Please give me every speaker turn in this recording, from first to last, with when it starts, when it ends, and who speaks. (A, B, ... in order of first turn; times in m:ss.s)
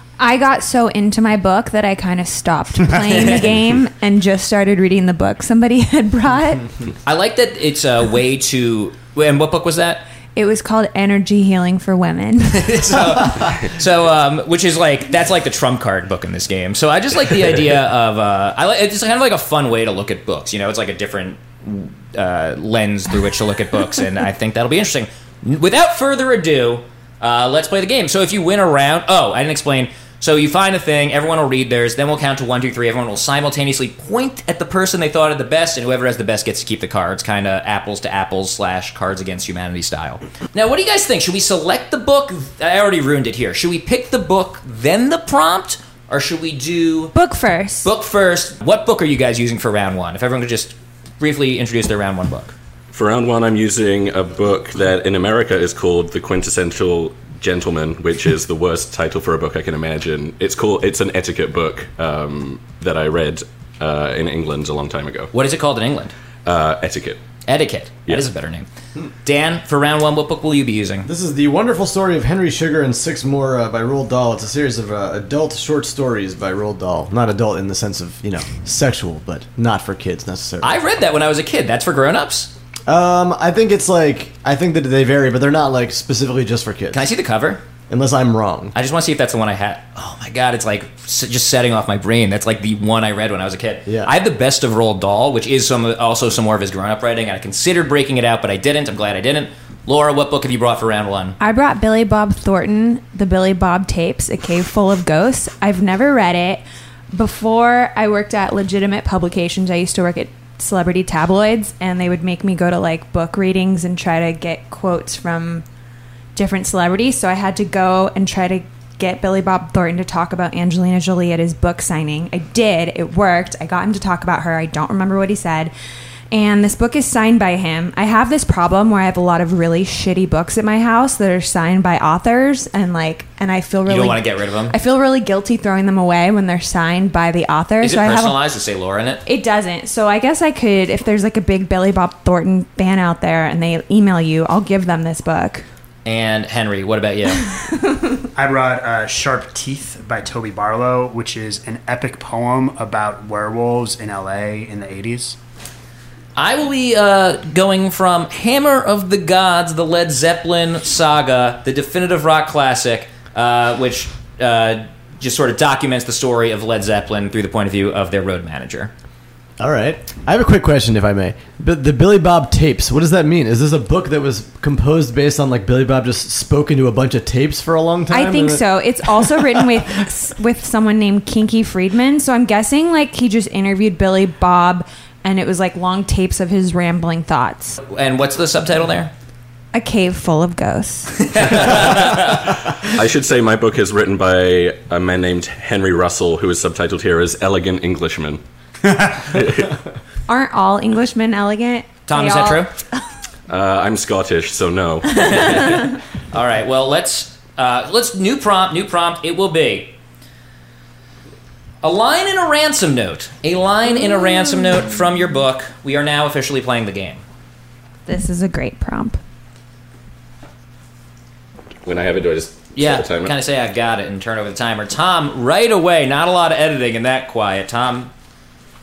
0:00.2-0:06.7 A
0:03.0-0:03.5 B
0:07.0-0:10.1 B
0:10.3-0:13.0 A
0:12.5-0:47.1 B
0:47.1-0:47.9 A
0:47.8-0:52.5 B
0:52.9-1:05.3 C
1:05.3-1:06.1 B
1:06.4-1:07.2 C
1:07.5-1:08.7 B
1:09.2-1:11.1 B
1:11.1-1:20.7 D
1:20.6-1:22.5 B
1:22.9-1:27.1 D
1:26.9-1:27.6 B
1:27.9-1:28.7 D
1:28.7-1:41.4 B
1:33.9-1:34.1 D
1:41.4-1:55.6 A
1:56.4-2:05.7 A
2:06.3-2:18.4 A
2:13.9-2:14.8 B
2:17.8-2:19.2 B
2:19.3-2:25.6 A
2:26.0-2:27.4 B
2:27.4-2:28.3 A
2:28.4-2:35.4 E
2:36.4-2:48.9 B
2:49.6-2:59.1 D
2:58.1-3:07.8 A
3:07.8-3:09.1 B
3:09.7-3:11.9 A
3:11.2-3:12.4 B
3:12.8-3:18.4 C
3:19.3-3:19.7 C
3:20.3-3:22.8 A
3:22.1-3:22.7 B
3:23.5-3:25.9 C
3:26.3-3:30.0 B
3:31.8-3:37.2 B
3:34.0-3:34.9 A
3:38.1-3:39.2 A
3:41.8-3:43.3 C
3:42.8-3:48.1 B